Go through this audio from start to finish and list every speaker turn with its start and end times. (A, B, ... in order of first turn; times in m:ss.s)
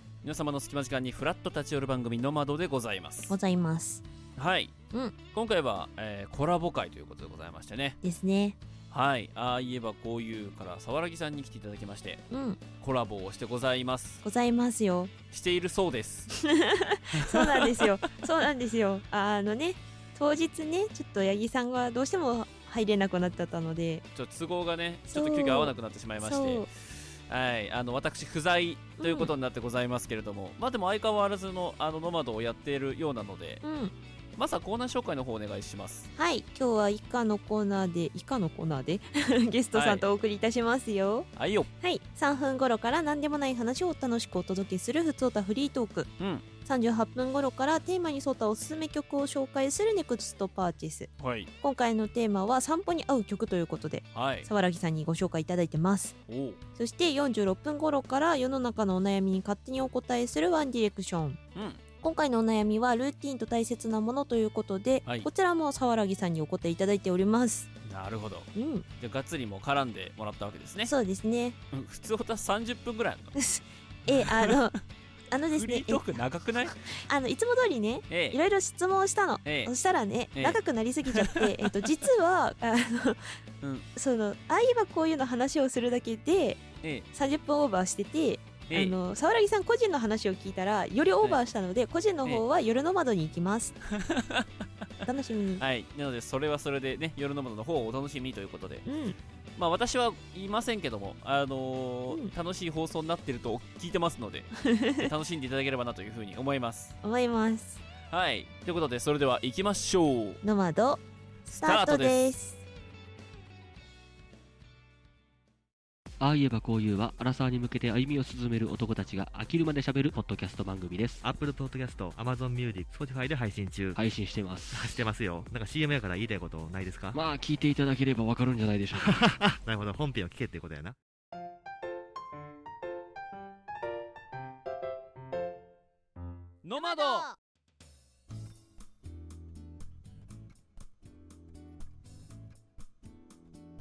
0:00.2-0:03.4 A
0:03.3-0:04.0 B
0:04.4-0:04.7 A
0:05.3-0:08.0 A
0:08.0-0:08.6 B
0:08.9-0:12.2 A
0:12.3-0:12.6 B
0:12.8-0:14.2 A
0:14.2-0:15.1 B
0:15.3-0:16.3 A
0:16.4-0:24.0 B
0:17.2-0:17.9 A
0:24.1-0:33.6 A
0:25.1-0:26.7 B
0:29.0-0:29.3 B
0:33.6-0:33.9 B
0:34.4-0:36.1 A
0:36.2-0:41.3 B
0:39.7-0:40.0 A
0:41.4-0:41.7 A
0:41.8-0:46.1 B
0:46.2-0:46.4 A
0:46.6-0:51.1 B
0:51.2-0:51.5 A
0:51.6-0:56.2 B
0:54.1-0:54.5 A
0:56.3-0:56.6 A
0:56.8-1:01.4 B
1:01.6-1:01.8 A
1:02.0-1:07.7 B
1:07.9-1:08.5 A
1:08.6-1:08.8 B
1:09.0-1:10.9 A
1:10.8-1:11.6 B
1:11.7-1:13.3 A
1:13.4-1:14.8 B
1:14.1-1:14.6 A
1:15.3-1:16.0 B
1:15.5-1:16.8 A
1:17.0-1:23.2 B
1:18.1-1:18.4 A
1:19.4-1:19.7 A
1:20.4-1:21.7 A
1:24.0-1:33.7 B
1:28.7-1:29.0 A
1:34.0-1:34.5 A
1:35.0-1:35.6 B
1:35.6-1:38.8 A
1:38.9-1:39.2 B
1:39.6-1:47.0 A
1:44.8-1:45.1 B
1:47.0-1:47.8 B
1:48.1-1:50.4 A
1:50.4-1:51.0 B
1:51.5-1:52.2 A
1:51.6-1:52.6 B
1:56.2-2:01.2 C
2:01.2-2:04.0 D
2:04.0-2:05.0 C
2:04.7-2:07.2 D
2:07.1-2:09.1 C
2:09.0-2:11.0 D
2:16.6-2:17.3 A
2:16.8-2:17.4 B